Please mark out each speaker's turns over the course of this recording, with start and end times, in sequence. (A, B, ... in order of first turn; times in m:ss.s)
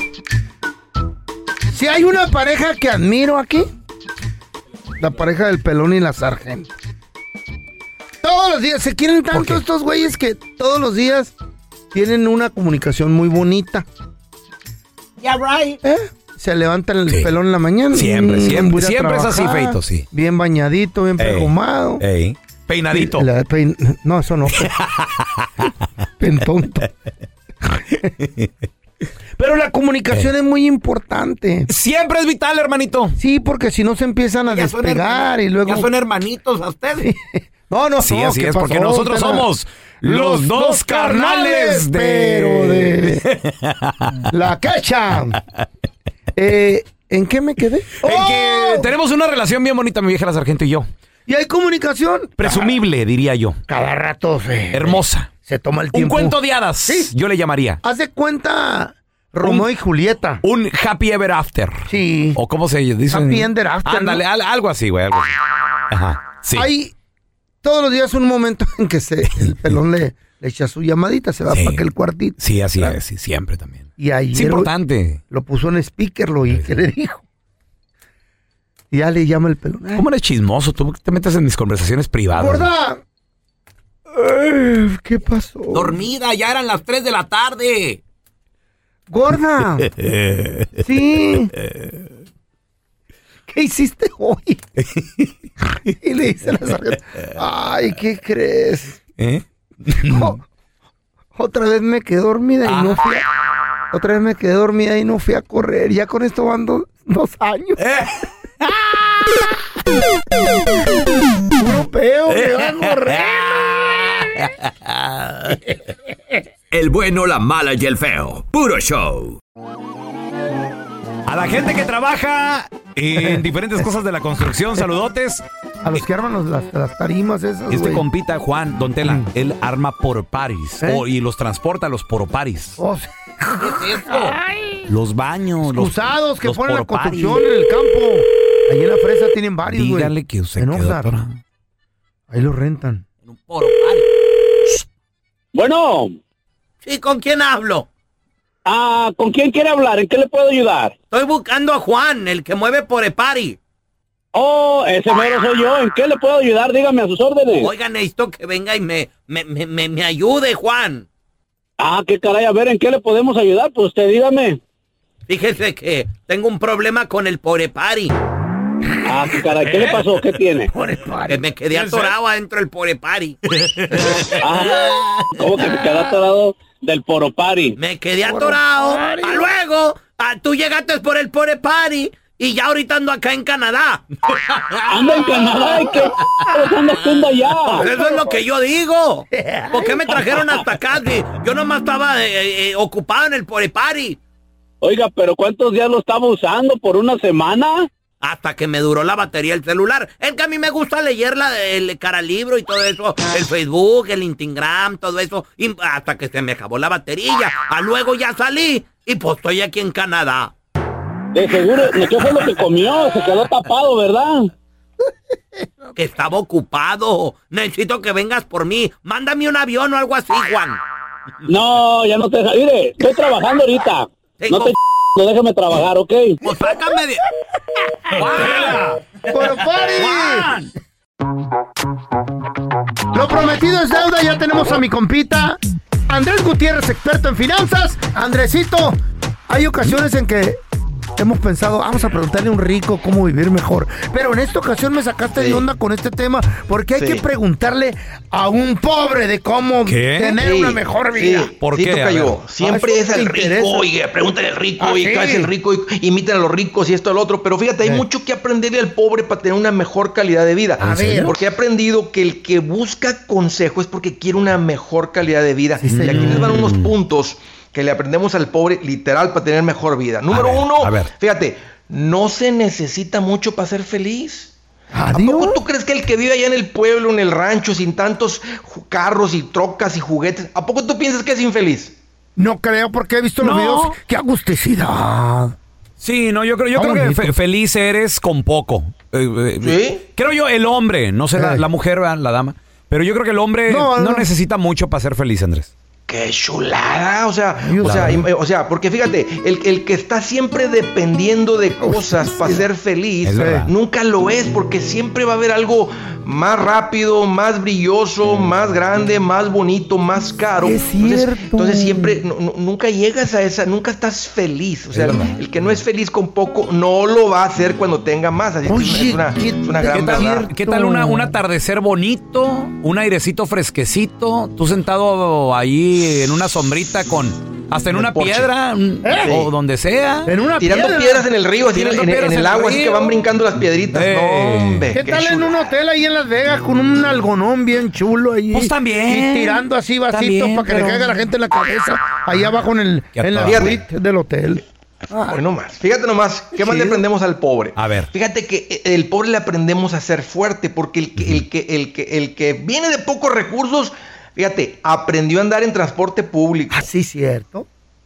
0:01.7-0:03.7 A
0:05.0-0:06.7 A
0:08.2-0:11.3 A
0:09.3-0:09.6 B
0:11.9-0:13.8 A
0:15.2-0:15.8 C
0:15.8-0:22.0 A
0:17.9-0:20.0 B
0:21.2-0:23.3 B
0:22.9-0:24.7 A
0:24.8-0:25.6 B
0:26.2-0:26.9 A
0:29.4-0:31.7 A
0:31.7-0:33.2 B
0:33.2-0:35.9 A
0:34.5-0:37.1 C
0:37.0-0:39.5 A
0:38.0-0:43.9 B
0:40.0-0:43.2 A
0:44.3-0:45.4 A
0:46.3-0:48.9 A
0:48.0-0:50.9 B
0:51.3-0:52.8 A
0:52.4-0:53.6 B
0:53.7-0:57.1 A
0:54.7-0:55.3 B
0:55.9-0:57.8 B
0:57.8-1:00.4 A
0:59.4-0:59.7 B
1:00.4-1:05.4 B
1:01.9-1:02.4 A
1:03.1-1:04.2 A
1:05.9-1:06.7 B
1:06.5-1:06.9 A
1:07.6-1:13.0 A
1:11.5-1:11.8 B
1:12.4-1:15.2 B
1:14.0-1:14.7 A
1:15.3-1:17.2 A
1:16.5-1:16.7 B
1:18.9-1:20.0 A
1:19.9-1:22.7 B
1:22.3-1:23.0 A
1:24.1-1:26.0 A
1:25.7-1:28.0 C
1:29.1-1:29.9 A
1:30.0-1:30.6 B
1:30.8-1:31.5 A
1:33.5-1:34.6 A
1:35.0-1:35.2 B
1:36.0-1:39.0 A
1:39.2-1:40.4 B
1:40.0-1:40.4 A
1:41.3-1:43.2 A
1:42.6-1:43.0 B
1:43.9-1:47.8 A
1:47.8-1:48.1 B
1:51.6-1:54.3 A
1:56.8-1:59.2 D
2:01.3-2:05.4 B
2:05.8-2:08.0 A
2:07.7-2:12.8 B
2:09.0-2:09.3 A
2:12.8-2:14.9 A
2:13.6-2:14.4 C
2:14.9-2:17.4 B
2:15.7-2:21.1 A
2:19.6-2:21.4 B
2:22.3-2:23.0 A
2:23.3-2:24.1 C
2:25.5-2:26.2 E
2:26.8-2:27.9 C
2:28.6-2:30.9 E
2:31.1-2:33.6 C
2:34.3-2:37.7 E
2:37.6-2:41.0 C
2:41.8-2:44.6 E
2:45.3-2:48.1 C
2:49.1-2:50.7 E
2:50.7-2:52.1 A
2:51.3-2:54.9 C
2:54.4-2:57.8 E
2:57.8-3:04.8 C
2:58.2-2:59.5 A
3:04.9-3:07.8 E
3:07.6-3:08.3 A
3:07.8-3:14.2 C
3:09.3-3:10.1 A
3:14.8-3:17.9 E
3:18.2-3:30.5 C
3:31.3-3:34.5 E
3:35.9-3:40.8 C
3:41.5-3:46.4 E
3:44.4-3:44.7 C
3:46.4-3:47.2 C
3:48.2-3:48.7 C
3:48.2-3:49.0 B
3:49.3-3:50.5 A
3:50.0-3:50.6 B
3:53.1-3:59.0 A
3:59.5-4:00.6 A
4:01.2-4:11.5 A
4:05.3-4:05.7 F
4:07.0-4:07.2 F
4:09.8-4:10.4 B
4:10.4-4:34.5 F
4:11.6-4:12.4 B
4:12.6-4:13.9 A
4:14.8-4:15.5 A
4:20.8-4:21.4 A
4:25.8-4:26.5 A
4:25.9-4:26.9 B
4:30.3-4:31.1 B
4:34.9-4:35.6 A
4:35.1-4:41.9 F
4:42.4-4:45.5 A
4:43.4-4:44.0 B
4:46.0-4:55.7 B
4:46.7-4:47.4 A
4:49.6-4:50.0 F
4:51.3-4:51.7 A
4:53.7-4:54.3 A
4:56.1-5:20.5 F
4:57.6-4:58.3 A
4:57.8-4:58.2 B
5:01.8-5:02.6 A
5:03.2-5:03.7 B
5:03.4-5:03.7 A
5:10.6-5:12.2 A
5:14.9-5:15.4 B
5:18.6-5:21.4 A
5:19.9-5:30.3 B
5:27.9-5:28.5 F
5:29.0-5:29.3 A
5:29.2-5:29.5 F
5:30.2-5:31.2 A
5:30.6-5:35.5 F
5:31.7-5:33.1 B
5:33.9-5:34.9 B
5:34.9-5:45.4 A
5:38.5-5:41.1 B
5:43.1-5:43.7 B
5:43.4-5:43.8 F
5:45.3-5:56.8 F
5:46.6-5:47.0 A
5:47.8-5:48.1 B
5:56.7-5:57.7 A